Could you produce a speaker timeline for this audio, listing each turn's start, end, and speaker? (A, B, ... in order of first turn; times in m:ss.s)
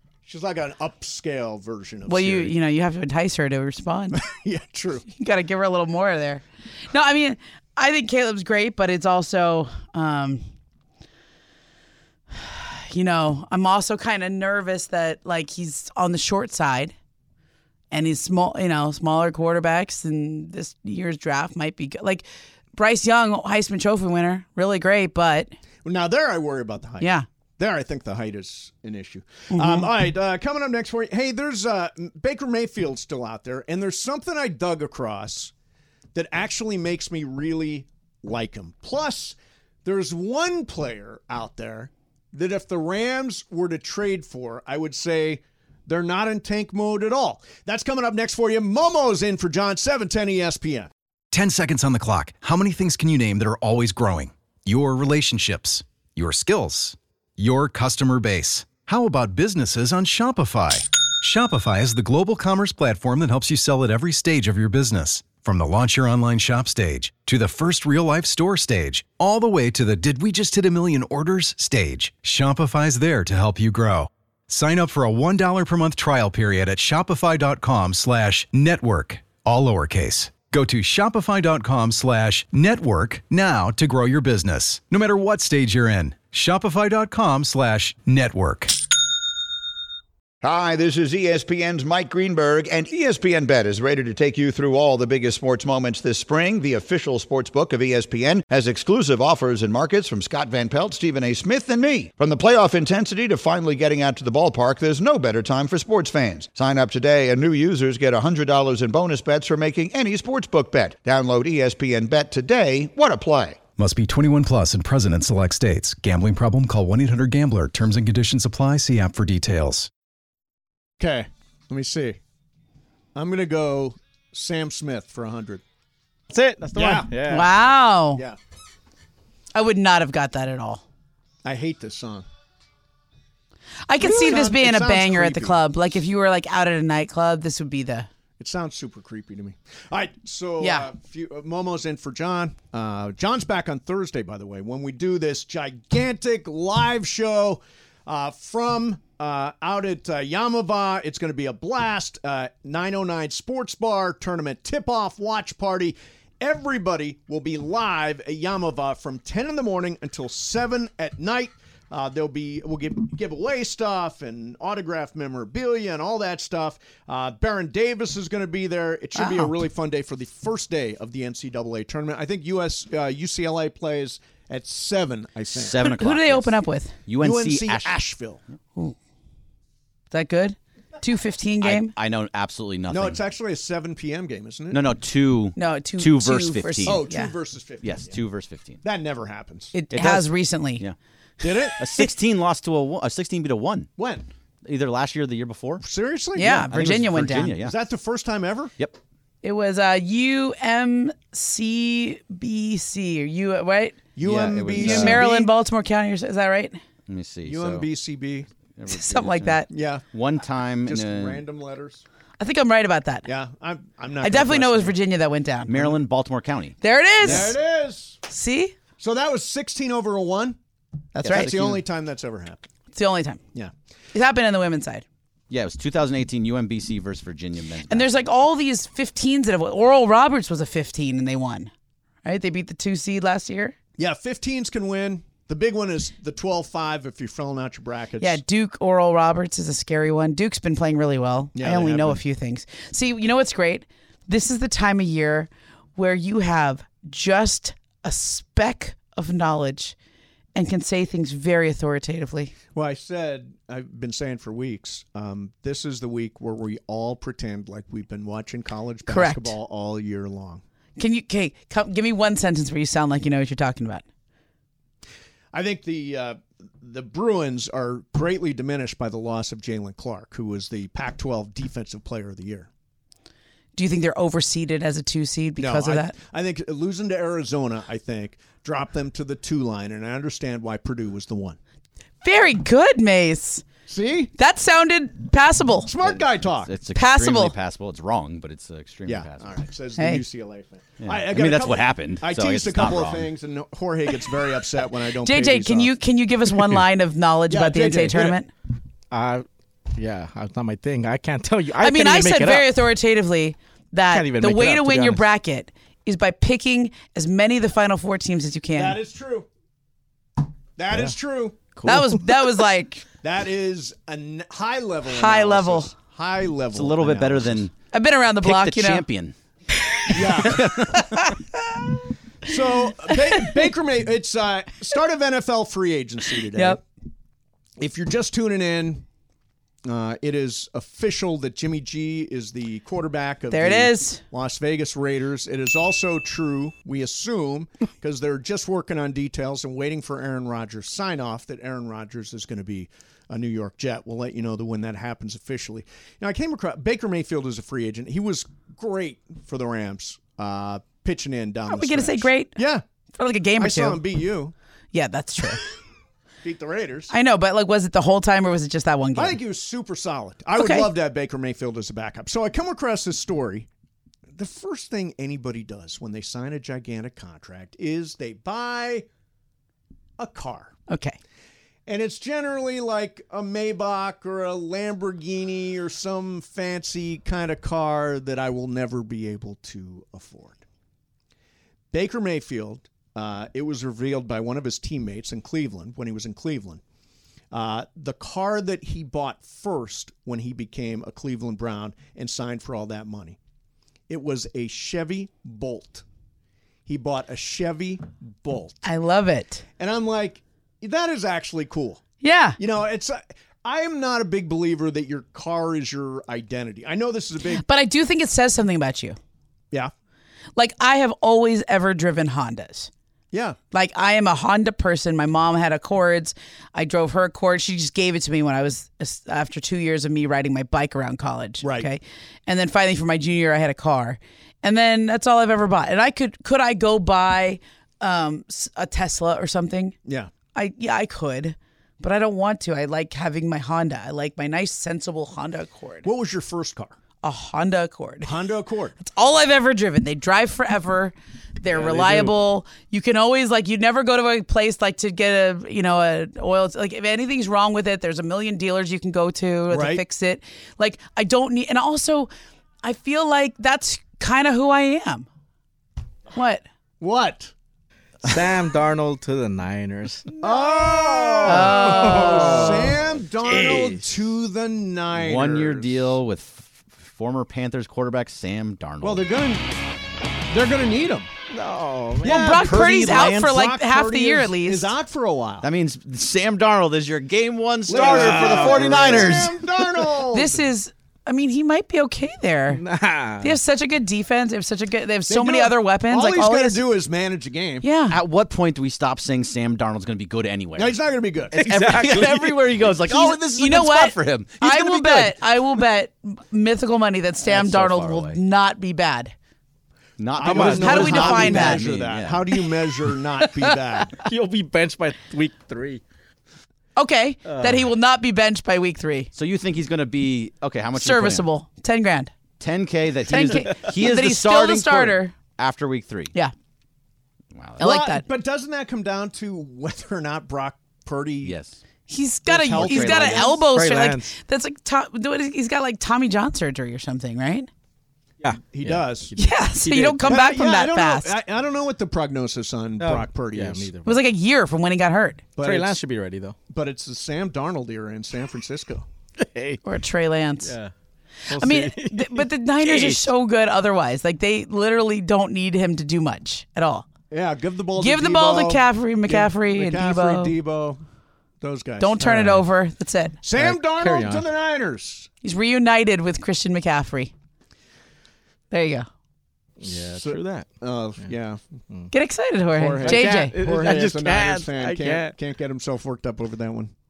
0:00.2-0:02.5 A
0:02.1-0:04.2 B
0:04.1-0:05.1 A
0:05.1-0:10.4 B
0:12.3-0:16.9 B
0:17.9-0:22.2 B
0:22.8-0:25.5 B
0:25.8-0:35.5 A
0:27.0-0:27.3 B
0:29.5-0:29.9 B
0:36.1-0:50.9 A
0:51.3-1:28.8 C
1:30.4-1:53.6 D
1:53.8-1:59.9 C
2:01.0-2:02.2 A
2:03.2-2:05.6 A
2:06.3-2:07.6 E
2:06.7-2:07.3 A
2:07.3-2:08.2 B
2:09.6-2:10.8 B
2:11.4-2:12.3 A
2:13.9-2:18.1 B
2:14.0-2:15.6 A
2:18.4-2:55.8 A
2:20.6-2:20.9 B
2:49.2-2:49.5 B
2:55.5-2:56.6 F
2:55.8-2:57.0 B
2:57.1-2:58.0 F
2:57.2-2:58.4 A
3:00.1-3:01.9 B
3:01.6-3:03.2 F
3:02.9-3:04.8 A
3:04.7-3:07.0 F
3:05.6-3:07.3 B
3:06.9-3:08.2 A
3:07.8-3:08.8 F
3:08.8-3:09.7 A
3:09.7-3:10.8 B
3:09.9-3:11.0 F
3:11.4-3:11.8 A
3:11.8-3:13.9 F
3:14.0-3:14.3 A
3:14.6-3:15.8 F
3:15.8-3:18.7 A
3:16.4-3:17.5 B
3:16.7-3:17.7 F
3:19.4-3:24.0 B
3:24.2-3:25.5 A
3:24.2-3:25.3 F
3:24.8-3:26.8 B
3:27.1-3:27.9 F
3:27.4-3:28.5 A
3:28.8-3:31.4 F
3:28.9-3:29.7 B
3:29.7-3:30.1 A
3:30.8-3:32.0 A
3:32.4-3:33.3 B
3:33.3-3:35.0 A
3:34.2-3:35.7 B
3:35.7-3:37.5 F
3:35.7-3:36.0 A
3:36.8-3:37.6 B
3:37.2-3:38.2 A
3:38.3-3:38.8 B
3:39.0-3:40.6 A
3:41.2-3:41.6 B
3:41.2-3:41.8 F
3:41.2-3:42.7 A
3:42.9-3:43.4 B
3:44.1-3:45.0 B
3:45.5-3:48.1 F
3:47.9-3:51.7 B
3:52.2-3:53.8 B
3:54.0-3:58.4 A
3:58.2-4:10.0 B
4:01.6-4:02.2 A
4:10.6-4:12.5 B
4:12.7-4:20.6 A
4:19.1-4:19.6 B
4:21.0-4:24.0 B
4:25.5-4:32.7 A
4:33.8-4:36.2 B
4:35.6-4:41.6 A
4:42.2-4:43.6 B
4:43.9-4:44.3 A
4:44.4-4:45.9 B
4:45.8-4:46.7 A
4:46.0-4:49.5 F
4:47.0-4:47.5 B
4:49.1-4:55.9 A
4:50.0-4:50.2 B
4:51.0-4:53.3 F
4:55.2-4:58.5 B
4:57.5-4:58.4 A
4:59.1-5:02.7 E
5:01.8-5:09.0 B
5:04.1-5:05.2 E
5:08.8-5:09.5 A
5:10.8-5:11.6 A
5:11.8-5:12.4 E
5:11.8-5:13.0 B
5:13.2-5:17.7 A
5:15.1-5:15.9 B
5:16.7-5:17.7 F
5:17.9-5:19.0 B
5:18.4-5:19.3 F
5:20.1-5:20.7 A
5:20.4-5:21.3 F
5:20.6-5:21.3 B
5:22.4-5:26.8 A
5:26.5-5:26.8 B
5:27.8-5:29.0 A
5:29.8-5:52.8 A
5:33.5-5:34.2 B
5:51.7-5:52.6 B
5:53.1-5:54.0 B
5:53.6-5:54.5 A
5:54.9-5:55.6 B
5:56.4-5:57.1 A
5:57.1-5:59.4 B
5:59.2-6:03.7 A
6:00.6-6:00.9 B
6:04.3-6:09.1 A
6:10.2-6:10.8 A
6:10.9-6:11.2 B
6:11.9-6:20.6 A
6:21.9-6:26.8 A
6:27.5-6:33.4 A
6:34.1-6:36.0 A
6:36.9-6:38.8 A
6:38.8-6:39.6 B
6:39.8-6:42.0 A
6:42.2-6:42.6 B
6:42.6-6:47.6 A
6:47.6-6:49.2 B
6:50.6-6:52.9 B
6:53.3-6:53.6 A
6:53.7-7:10.0 B
7:01.6-7:01.9 A
7:10.0-7:10.3 A
7:10.6-7:16.1 B
7:16.0-7:17.0 A
7:17.2-7:18.3 B
7:18.2-7:19.0 A
7:19.0-7:32.3 B
7:21.7-7:22.3 A
7:29.7-7:30.0 A
7:32.8-7:35.3 B
7:36.3-7:36.6 B
7:37.0-7:37.5 A
7:38.2-7:44.2 E
7:40.4-7:46.1 A
7:41.4-7:42.7 B
7:45.1-7:49.2 F
7:49.0-7:49.6 A
7:50.5-7:51.3 A
7:51.5-7:52.5 E
7:52.2-7:54.9 B
7:52.2-7:55.7 A
7:52.2-7:53.6 F
7:55.6-7:59.6 F
7:57.9-8:00.6 A
7:57.9-7:59.2 E
8:00.3-8:02.8 B
8:02.7-8:03.6 E
8:03.4-8:06.8 B
8:05.3-8:07.8 A
8:07.8-8:08.2 B
8:08.1-8:11.0 F
8:10.8-8:12.2 A
8:11.5-8:12.7 E
8:11.6-8:15.4 F
8:13.4-8:19.3 B
8:17.4-8:18.4 F
8:20.2-8:22.5 F
8:20.4-8:24.2 A
8:20.4-8:21.5 E
8:20.8-8:21.8 B
8:23.6-8:24.0 B
8:24.2-8:26.0 E
8:27.0-8:29.3 B
8:27.5-8:27.9 E
8:29.4-8:31.5 F
8:31.0-8:32.3 B
8:32.6-8:36.3 F
8:33.3-8:35.3 B
8:37.5-8:37.8 F
8:37.8-8:38.2 B
8:37.8-8:41.6 A
8:41.4-8:41.8 F
8:42.1-8:47.7 B
8:42.5-8:43.6 A
8:42.7-8:43.5 F
8:42.9-8:44.3 E
8:48.4-8:50.2 E
8:48.7-8:49.3 A
8:49.4-8:51.4 B
8:50.2-8:53.9 A
8:53.0-8:54.2 E
8:54.0-8:55.4 B
8:55.6-8:56.0 A
8:55.6-8:56.6 E
8:56.7-8:59.1 A
8:59.4-8:59.8 E
8:59.8-9:00.8 B
9:00.6-9:00.9 E
9:01.5-9:03.3 E
9:01.6-9:07.1 B
9:07.3-9:11.0 A
9:08.0-9:10.6 B
9:11.6-9:12.6 A
9:12.0-9:13.4 B
9:13.4-9:15.3 A
9:13.5-9:14.5 E
9:15.4-9:17.3 B
9:18.7-9:19.1 B
9:19.8-9:20.7 E
9:20.1-9:21.6 A
9:22.1-9:23.6 B
9:22.8-9:26.9 A
9:22.9-9:25.4 E